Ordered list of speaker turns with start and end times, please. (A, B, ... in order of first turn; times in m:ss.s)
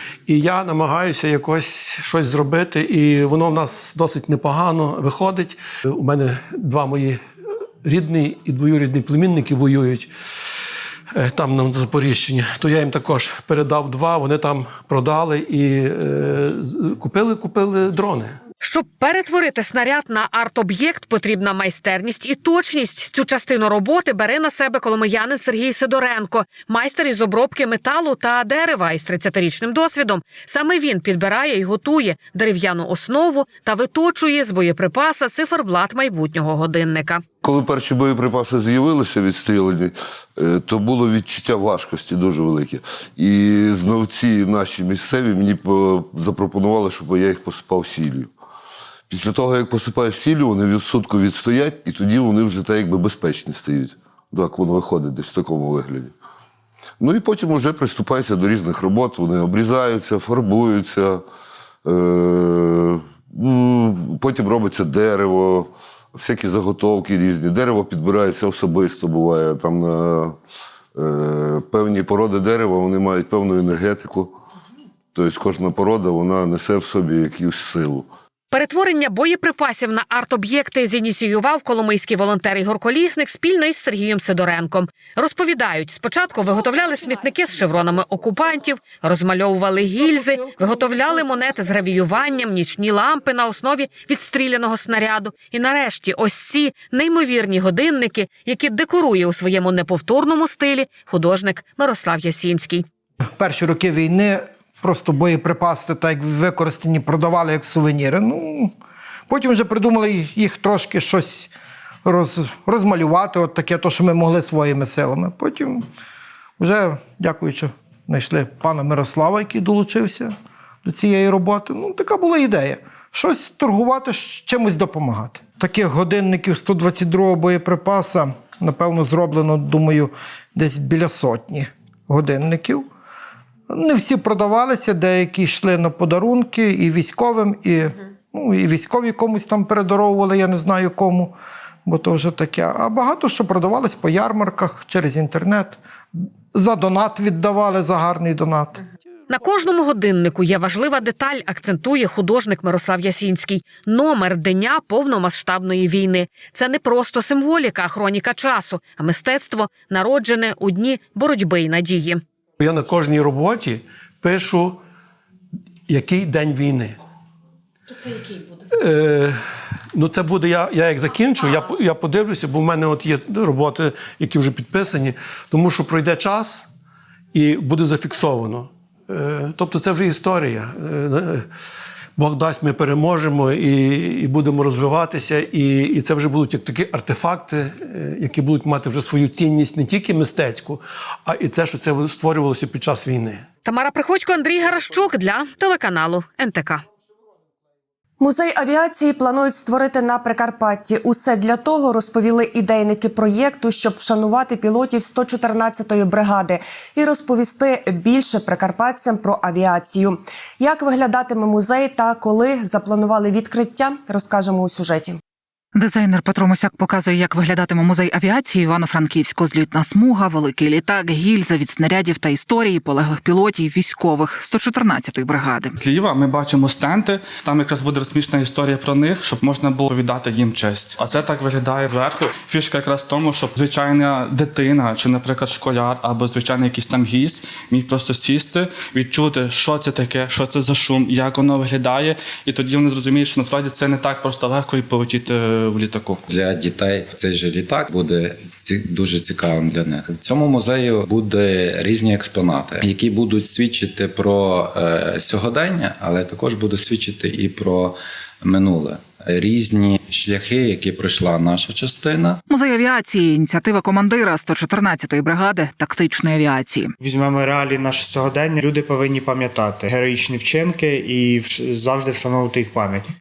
0:00.3-0:07.2 A
0:07.8-0:10.1 A
0:11.1-0:18.4 A
0:18.6-0:37.2 B
0:37.4-0:48.3 C
0:49.1-0:56.1 C
0:57.0-1:01.2 C
1:01.8-1:10.4 C
1:11.0-1:14.4 C
1:15.1-1:18.1 C
1:18.5-1:42.9 B
1:30.2-1:31.0 A
1:43.4-1:48.7 D
1:49.3-1:51.5 D
1:52.0-1:55.9 D
1:56.6-2:12.9 D
2:13.7-2:21.3 D
2:21.9-2:25.8 D
2:26.5-2:28.8 D
2:29.3-2:42.2 B
2:42.6-2:44.8 A
2:45.9-2:47.0 A
2:48.7-2:49.4 A
2:49.9-2:56.7 A
2:57.3-3:01.5 A
3:02.2-3:13.4 A
3:13.6-3:16.8 B
3:18.2-3:35.2 E
3:35.8-3:45.8 F
3:45.8-4:06.2 G
4:06.3-4:22.4 H
4:22.5-4:26.9 F
4:27.0-4:33.1 I